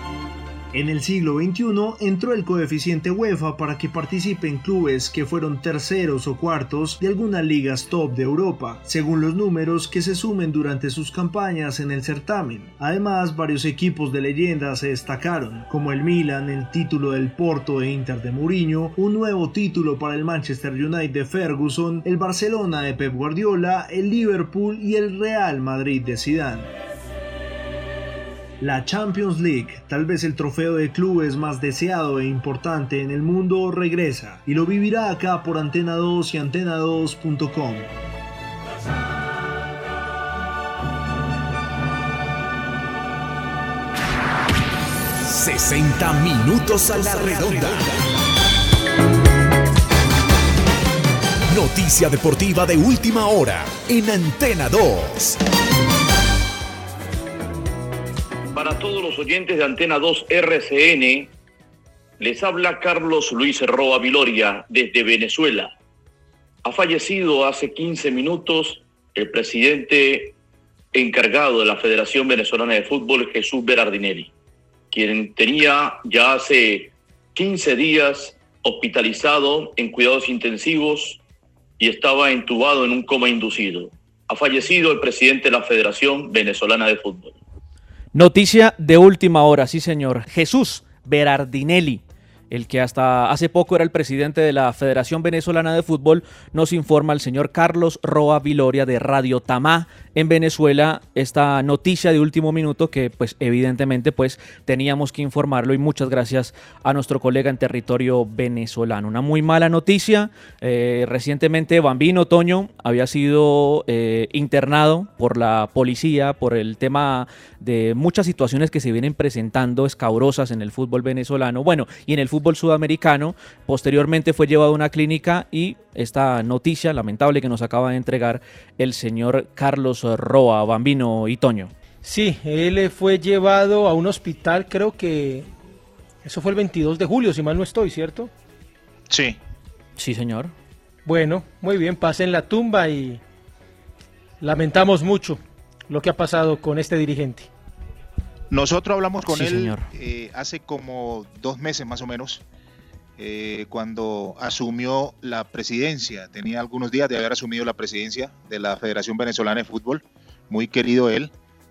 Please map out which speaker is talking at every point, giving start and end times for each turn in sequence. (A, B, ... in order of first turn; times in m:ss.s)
0:00.7-0:26.7 A
0:28.6-0:37.9 A
0:45.2-0:47.9 B
0:51.5-0:55.4 B
0:58.5-1:01.3 C
1:02.2-1:05.7 C
1:06.6-1:10.4 C
1:10.9-1:14.3 C
1:14.9-1:21.2 C
1:21.8-1:27.4 C
1:28.1-2:11.7 D
2:12.0-2:15.5 E
2:16.2-2:18.3 E
2:19.1-2:19.4 F
2:20.0-2:20.5 D
2:21.1-2:23.2 E
2:24.4-2:27.5 E
2:28.5-2:32.4 F
2:29.3-2:29.9 D
2:33.2-2:41.3 F